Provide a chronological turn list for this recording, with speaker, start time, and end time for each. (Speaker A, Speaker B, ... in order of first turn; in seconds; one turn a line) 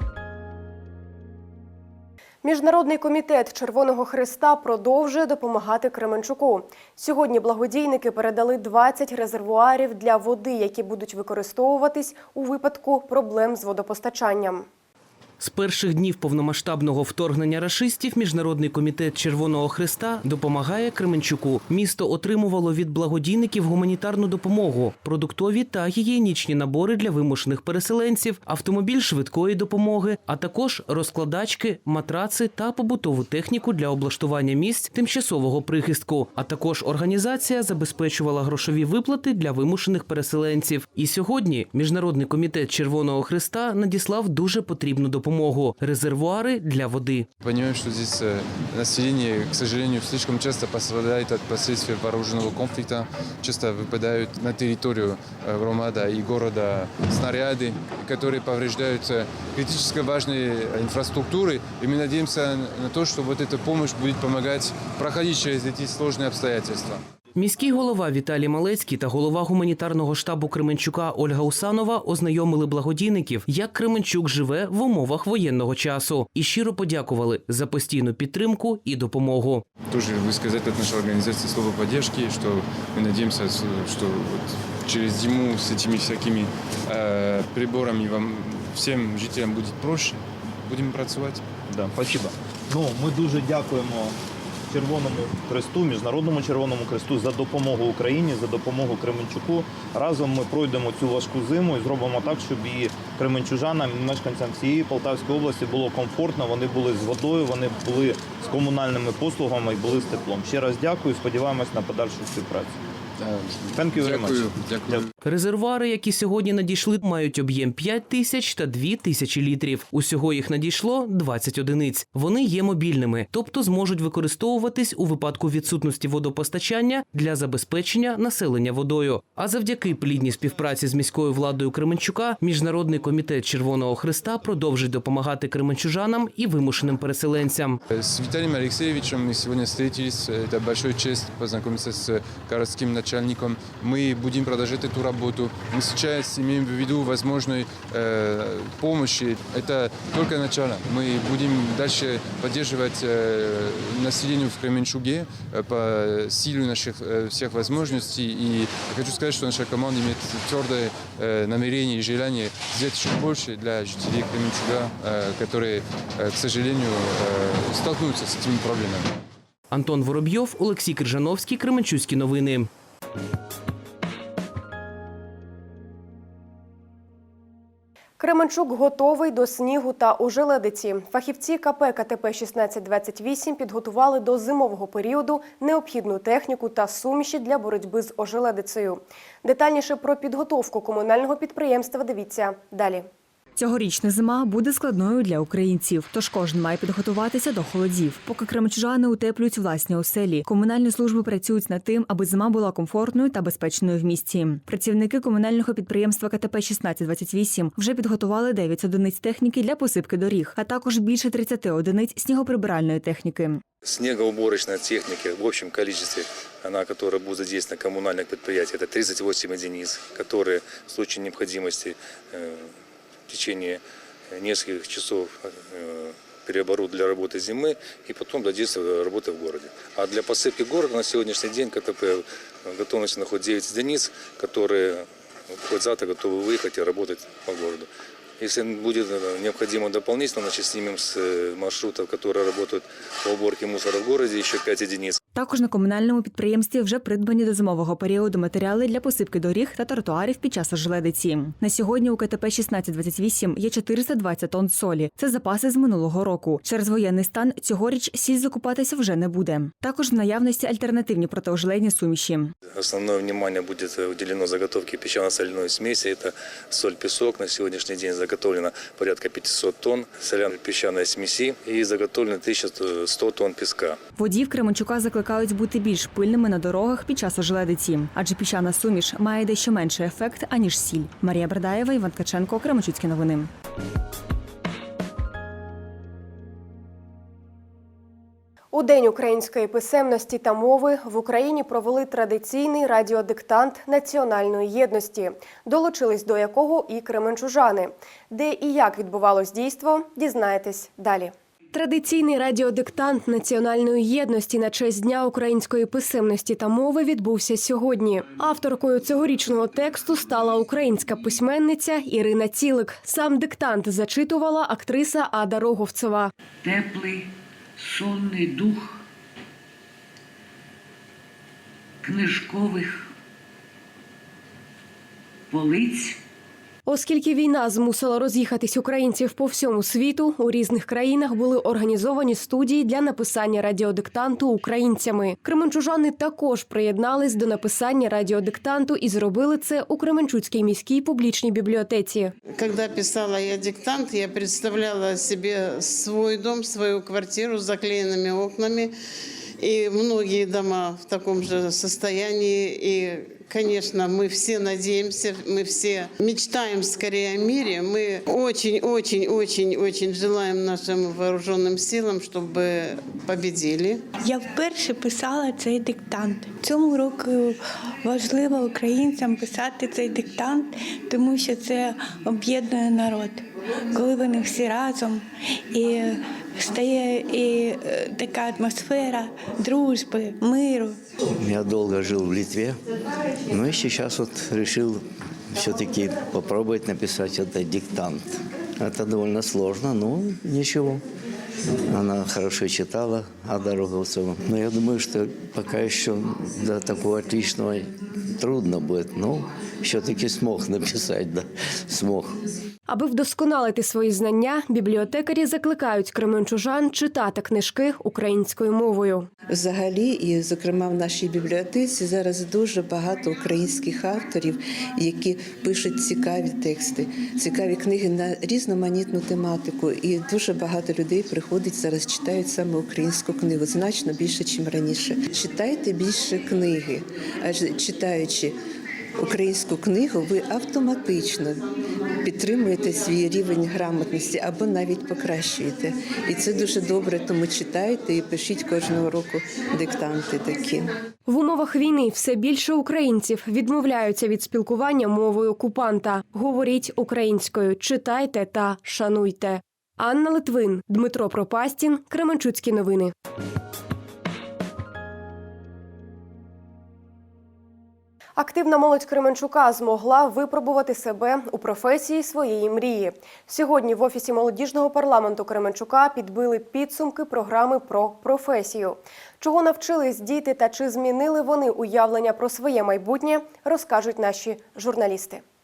Speaker A: 2.4-14.7
Speaker B: 15.4-47.3
Speaker C: 47.4-67.0
Speaker B: 67.4-79.7
Speaker C: 79.9-91.4
Speaker D: 91.7-94.2
Speaker D: 94.7-112.8
Speaker C: 113.2-115.0
Speaker D: 113.8-115.1
Speaker B: 115.2-137.8
Speaker C: 137.9-169.1
Speaker B: 169.7-172.7
Speaker A: 178.2-193.1
Speaker E: 193.6-213.6
Speaker F: 213.8-222.6
Speaker F: 223.3-237.9
Speaker F: 238.4-245.2
Speaker E: 245.3-262.5
Speaker F: 262.7-274.0
Speaker E: 274.2-283.5
Speaker A: 288.7-316.3
Speaker G: 316.6-317.3
Speaker G: 317.8-318.9
Speaker G: 322.0-323.0
Speaker G: 325.5-326.1
Speaker A: 326.9-342.3
Speaker H: 342.6-348.9
Speaker H: 349.6-364.1
Speaker I: 364.2-373.4
Speaker I: 373.9-381.0
Speaker J: 381.4-382.8
Speaker J: 383.5-385.0
Speaker J: 385.5-388.3
Speaker J: 388.8-391.0
Speaker J: 391.9-397.9
Speaker J: 398.4-402.4
Speaker A: 402.9-409.3
Speaker K: 409.6-428.5
Speaker K: 429.2-431.6
Speaker K: 432.2-440.9
Speaker A: 441.3-453.1
Speaker A: 458.4-475.4